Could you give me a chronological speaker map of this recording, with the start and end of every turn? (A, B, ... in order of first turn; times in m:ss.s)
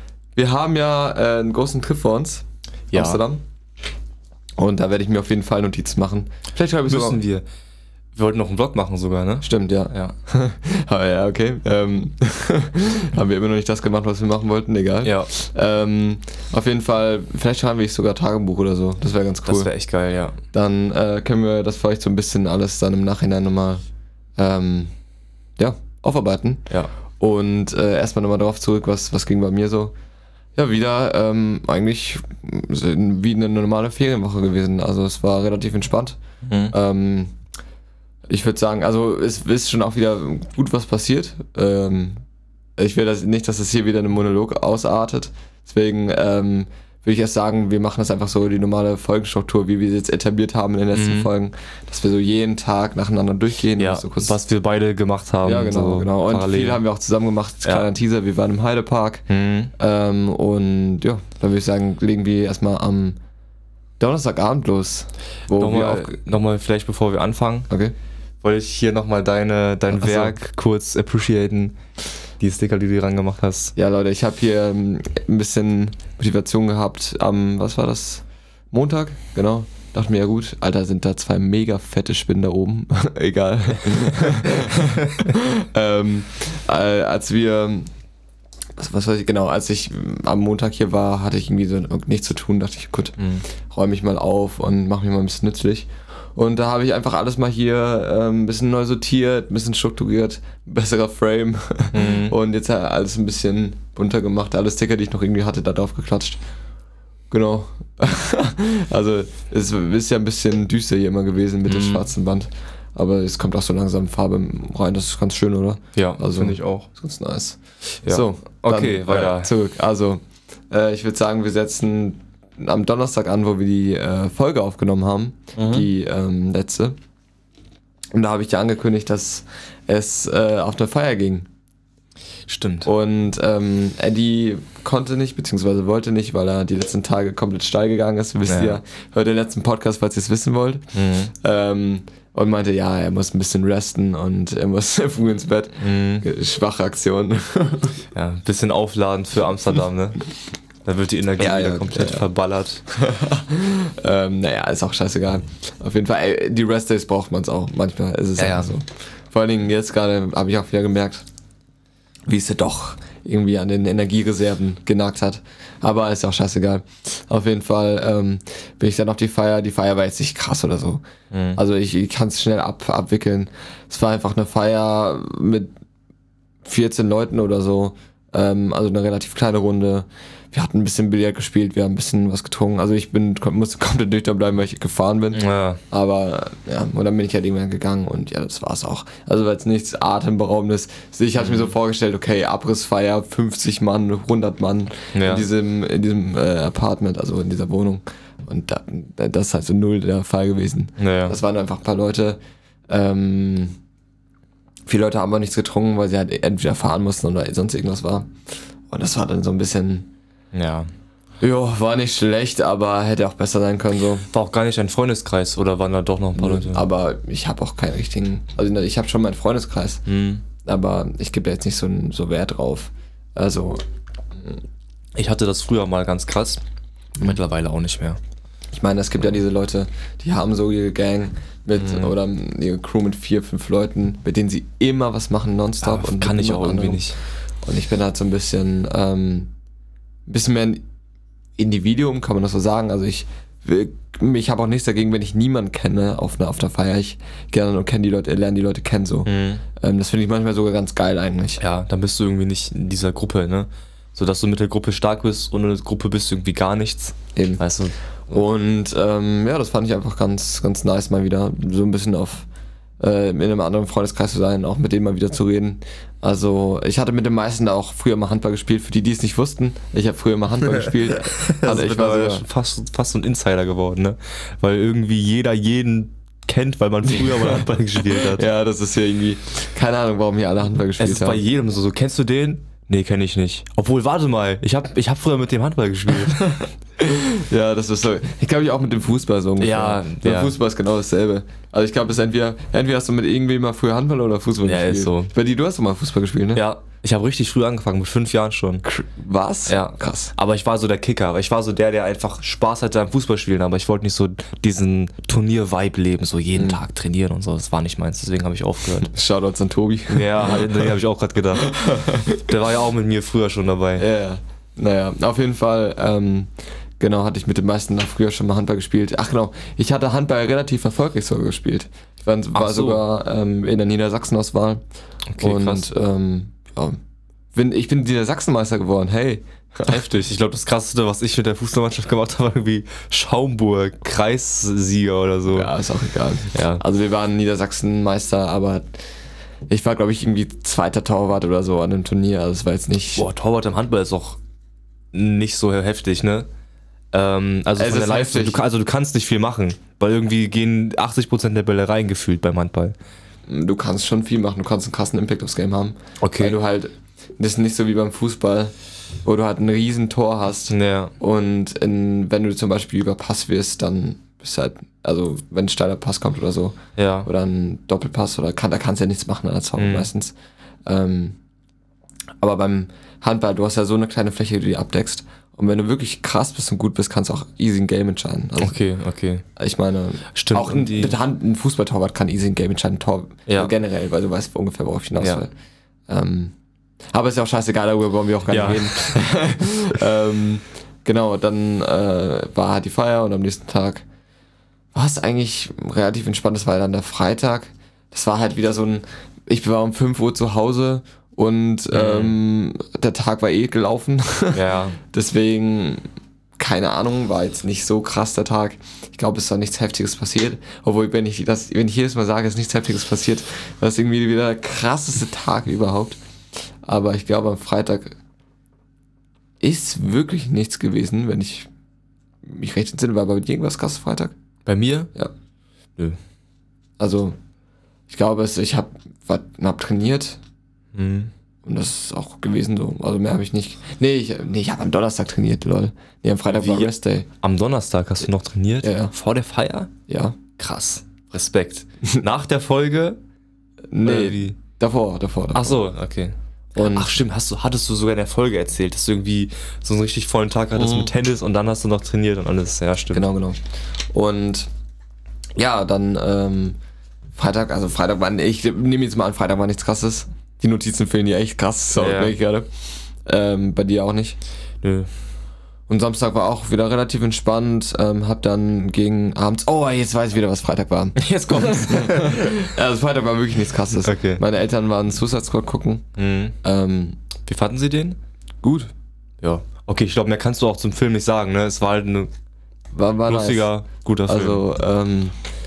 0:00.4-0:03.4 A
0:02.9-0:03.2 B
0:04.6-0:07.2 A
0:06.9-0:07.5 B
0:08.2-0:10.1 B
0:09.4-0:19.7 A
0:15.0-0:15.3 B
0:19.5-0:20.4 B
0:20.5-0:23.8 A
0:24.4-0:24.9 A
0:25.6-0:26.7 A
0:27.2-0:29.9 A
0:30.6-0:37.3 A
0:36.4-0:36.7 B
0:38.3-0:42.2 A
0:42.8-0:54.4 A
0:50.9-0:51.3 B
0:53.8-0:56.8 B
0:55.4-0:59.2 A
0:59.3-0:59.7 B
0:59.8-1:03.2 A
1:04.0-1:06.2 A
1:05.5-1:07.7 B
1:08.4-1:11.8 B
1:09.9-1:10.4 A
1:12.4-1:13.7 B
1:13.8-1:27.9 A
1:24.0-1:25.3 B
1:28.8-1:33.2 A
1:33.2-1:33.4 B
1:33.7-1:46.4 A
1:41.9-1:42.4 B
1:47.3-2:07.0 A
1:51.7-1:52.1 B
1:56.0-1:56.9 B
1:58.0-1:59.5 B
2:05.6-2:05.9 B
2:08.1-2:11.5 A
2:12.5-2:12.9 B
2:12.8-2:28.0 A
2:18.5-2:18.8 B
2:20.9-2:21.3 B
2:25.8-2:26.3 B
2:28.1-2:30.2 B
2:30.8-2:32.8 B
2:31.4-2:32.3 A
2:32.9-2:41.2 A
2:38.4-2:38.8 B
2:42.3-2:51.0 A
2:51.3-2:51.6 B
2:51.6-2:55.7 A
2:56.6-3:23.8 A
3:05.3-3:05.8 B
3:11.4-3:11.7 B
3:15.1-3:15.5 B
3:21.0-3:21.4 B
3:24.9-3:28.3 A
3:28.9-3:30.1 A
3:30.5-3:30.9 B
3:31.4-3:34.3 A
3:34.3-3:36.9 B
3:36.4-3:40.1 A
3:40.1-3:40.4 B
3:40.6-3:43.8 A
3:45.2-3:46.6 B
3:47.2-3:48.2 B
3:48.7-3:57.1 A
3:51.8-3:52.1 B
3:55.8-3:57.2 B
3:57.6-3:59.5 A
4:00.3-4:00.8 A
4:01.6-4:11.6 A
4:09.3-4:09.6 B
4:11.6-4:18.0 B
4:17.4-4:17.6 A
4:18.3-4:22.5 A
4:23.0-4:32.4 A
4:31.3-4:38.4 B
4:37.2-4:37.6 A
4:38.2-4:41.4 A
4:41.0-4:46.6 B
4:46.4-4:56.7 A
4:49.6-4:50.5 B
4:54.6-4:55.3 B
4:56.6-4:58.8 B
4:58.8-5:00.3 A
4:59.7-5:09.1 B
5:09.1-5:10.9 A
5:10.1-5:11.7 B
5:11.6-5:12.4 A
5:12.3-5:14.0 B
5:14.0-5:24.8 A
5:22.5-5:23.0 B
5:25.3-5:25.9 B
5:25.4-5:27.0 A
5:27.5-5:30.0 A
5:29.9-5:35.7 B
5:35.5-5:38.9 A
5:36.5-5:36.8 B
5:39.7-5:43.3 A
5:43.2-5:44.4 B
5:45.1-5:46.5 B
5:47.1-5:53.0 B
5:47.8-5:48.6 A
5:53.5-5:58.7 A
5:56.2-5:56.6 B
5:59.2-6:10.3 A
6:00.7-6:01.1 B
6:07.0-6:07.3 B
6:09.8-6:10.1 B
6:10.9-6:11.4 A
6:12.4-6:18.8 A
6:18.6-6:19.4 B
6:19.6-6:25.5 A
6:20.4-6:21.2 B
6:23.5-6:23.7 B
6:26.1-6:26.5 A
6:27.1-6:34.0 A
6:28.5-6:29.2 B
6:34.9-6:46.0 A
6:41.9-6:42.4 B
6:44.5-6:45.0 B
6:46.6-6:56.2 A
6:56.8-6:58.2 A
6:59.6-7:01.7 A
7:02.4-7:04.3 A
7:04.7-7:05.1 B
7:07.0-7:07.4 A
7:08.1-7:10.4 A
7:10.9-7:11.3 B
7:11.6-7:17.3 A
7:16.5-7:19.9 B
7:18.8-7:19.1 A
7:20.1-7:20.4 A
7:20.6-7:23.2 B
7:23.9-7:25.8 A
7:24.0-7:24.6 B
7:25.5-7:33.3 B
7:26.8-7:27.1 A
7:30.8-7:31.1 A
7:33.1-7:33.6 A
7:34.1-7:34.7 A
7:35.6-7:36.8 A
7:37.4-7:42.7 A
7:42.0-7:42.4 B
7:43.2-7:44.4 A
7:44.8-7:45.1 B
7:45.9-7:56.0 A
7:51.2-7:52.7 B
7:54.0-7:54.4 B
7:56.2-7:56.6 B
7:56.6-7:57.2 A
7:57.5-7:58.2 B
7:58.6-7:58.9 A
7:59.4-8:02.3 B
8:02.9-8:03.7 A
8:03.2-8:04.6 B
8:04.3-8:05.4 A